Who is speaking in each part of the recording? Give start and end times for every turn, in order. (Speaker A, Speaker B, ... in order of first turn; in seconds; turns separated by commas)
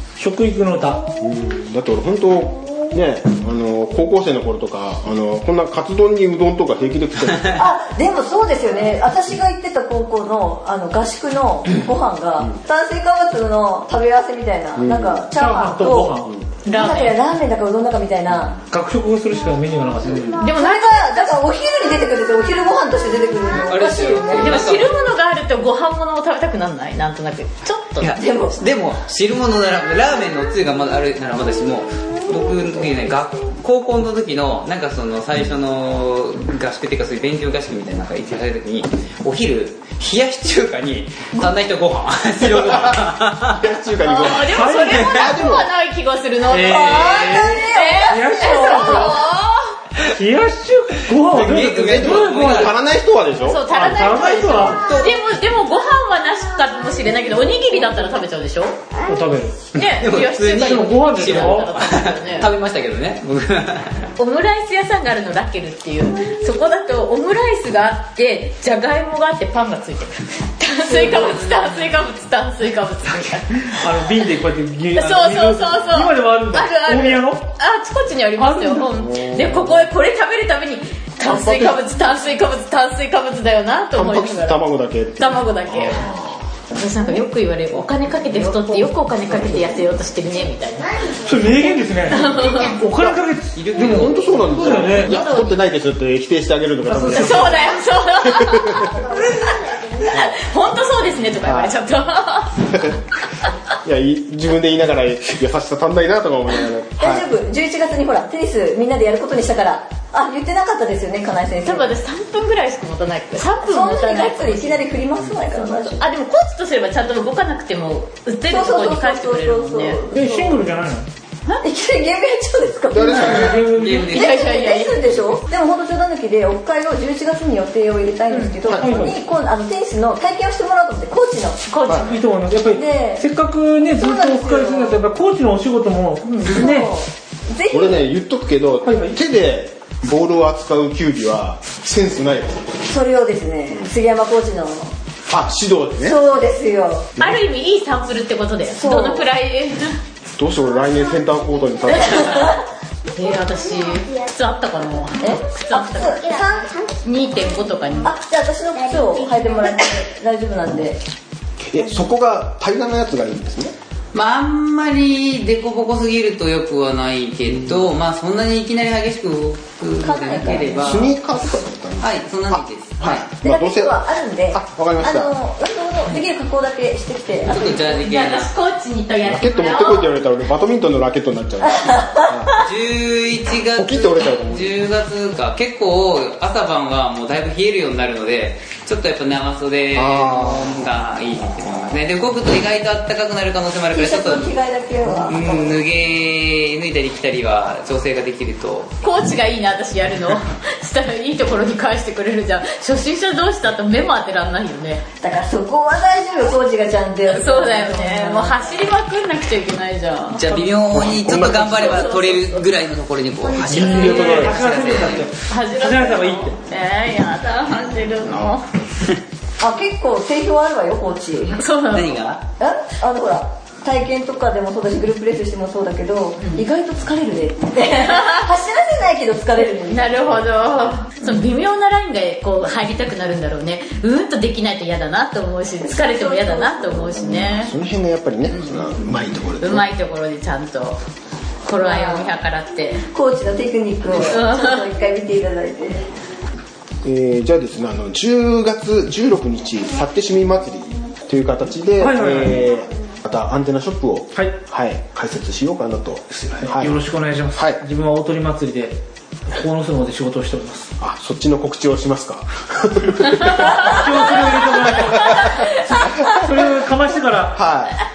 Speaker A: 0.2-1.0, Speaker B: 1.2-7.6, Speaker C: 7.5-18.6, Speaker B: 14.8-15.3, Speaker A: 15.3-16.3, Speaker D: 16.6-17.1, Speaker A: 18.7-20.3, Speaker D: 20.4-21.4, Speaker C: 20.4-24.6, Speaker E: 23.5-24.9, Speaker D: 24.4-28.1, Speaker E: 28.0-43.6, Speaker C: 28.1-28.6, Speaker B: 42.5-45.7, Speaker D: 44.0-49.7, Speaker A: 44.4-45.1, Speaker E: 44.5-45.3, Speaker A: 46.5-49.2, Speaker C: 46.6-48.9, Speaker A: 50.0-52.7, Speaker E: 51.1-52.7, Speaker B: 51.3-53.7, Speaker D: 53.4-58.8, Speaker A: 53.7-55.0, Speaker E: 54.9-55.1, Speaker A: 59.1-59.6, Speaker E: 59.7-64.1, Speaker D: 59.8-62.5, Speaker A: 60.6-61.7, Speaker D: 64.2-73.5, Speaker E: 70.8-71.7, Speaker A: 73.7-77.5, Speaker D: 74.9-84.6, Speaker A: 78.4-78.9, Speaker B: 79.0-79.8, Speaker B: 81.2-81.8, Speaker B: 83.9-86.4, Speaker D: 85.2-86.1, Speaker D: 86.7-91.0, Speaker C: 88.5-89.6, Speaker A: 91.2-95.2, Speaker D: 92.0-92.8, Speaker E: 93.5-95.5, Speaker B: 93.8-99.0, Speaker D: 95.1-95.4, Speaker A: 96.8-97.5, Speaker D: 97.0-102.6, Speaker B: 100.1-100.3, Speaker B: 101.4-101.8, Speaker B: 102.7-103.0, Speaker B: 103.8-107.2, Speaker C: 107.0-112.0, Speaker D: 111.6-114.8, Speaker C: 113.6-116.0, Speaker D: 115.5-120.0, Speaker C: 118.5-120.7, Speaker A: 120.1-121.1, Speaker C: 121.6-131.6, Speaker B: 122.9-123.6, Speaker A: 123.1-124.1, Speaker E: 123.6-125.2, Speaker D: 124.0-124.9, Speaker D: 128.3-128.8, Speaker A: 128.7-129.2, Speaker D: 131.7-132.1, Speaker A: 131.8-136.9, Speaker B: 131.8-132.2, Speaker C: 132.6-133.2, Speaker C: 133.9-135.0, Speaker C: 136.2-138.1, Speaker B: 137.7-142.8, Speaker A: 138.8-139.2, Speaker C: 142.9-144.9, Speaker B: 145.3-146.2, Speaker C: 146.0-147.1, Speaker D: 147.2-149.9, Speaker C: 148.7-149.3, Speaker B: 150.4-152.6, Speaker C: 152.1-152.5, Speaker D: 153.1-156.2, Speaker C: 155.2-156.7, Speaker D: 156.9-158.1, Speaker C: 158.0-161.0, Speaker B: 161.6-163.7, Speaker E: 164.1-171.2, Speaker C: 170.0-171.0, Speaker B: 170.8-175.3, Speaker E: 172.0-173.3, Speaker C: 173.3-178.1, Speaker E: 177.4-178.5, Speaker D: 178.0-180.1, Speaker B: 179.2-182.5, Speaker C: 181.7-182.6, Speaker E: 182.6-198.9, Speaker B: 183.7-184.8, Speaker B: 189.9-190.7, Speaker C: 193.9-195.8, Speaker D: 199.0-205.0, Speaker C: 205.2-208.8, Speaker D: 207.3-210.7, Speaker E: 210.3-215.3, Speaker B: 210.9-212.1, Speaker D: 211.7-212.6, Speaker C: 213.4-214.3, Speaker A: 213.7-216.5, Speaker B: 213.8-214.6, Speaker D: 214.3-214.8, Speaker D: 215.5-218.6, Speaker B: 218.2-218.6, Speaker C: 219.6-221.6, Speaker D: 221.6-222.1, Speaker E: 221.9-222.4, Speaker C: 222.6-230.3, Speaker D: 229.8-237.7, Speaker C: 235.8-237.1, Speaker B: 237.1-239.9, Speaker D: 239.6-241.0, Speaker D: 241.6-243.0, Speaker C: 241.8-242.3, Speaker C: 243.0-246.0, Speaker D: 244.1-244.8, Speaker B: 247.0-257.0, Speaker A: 252.0-252.6, Speaker A: 256.3-259.0, Speaker B: 257.5-257.8, Speaker A: 259.5-260.9, Speaker B: 261.0-266.8, Speaker A: 263.8-267.6, Speaker B: 267.5-268.0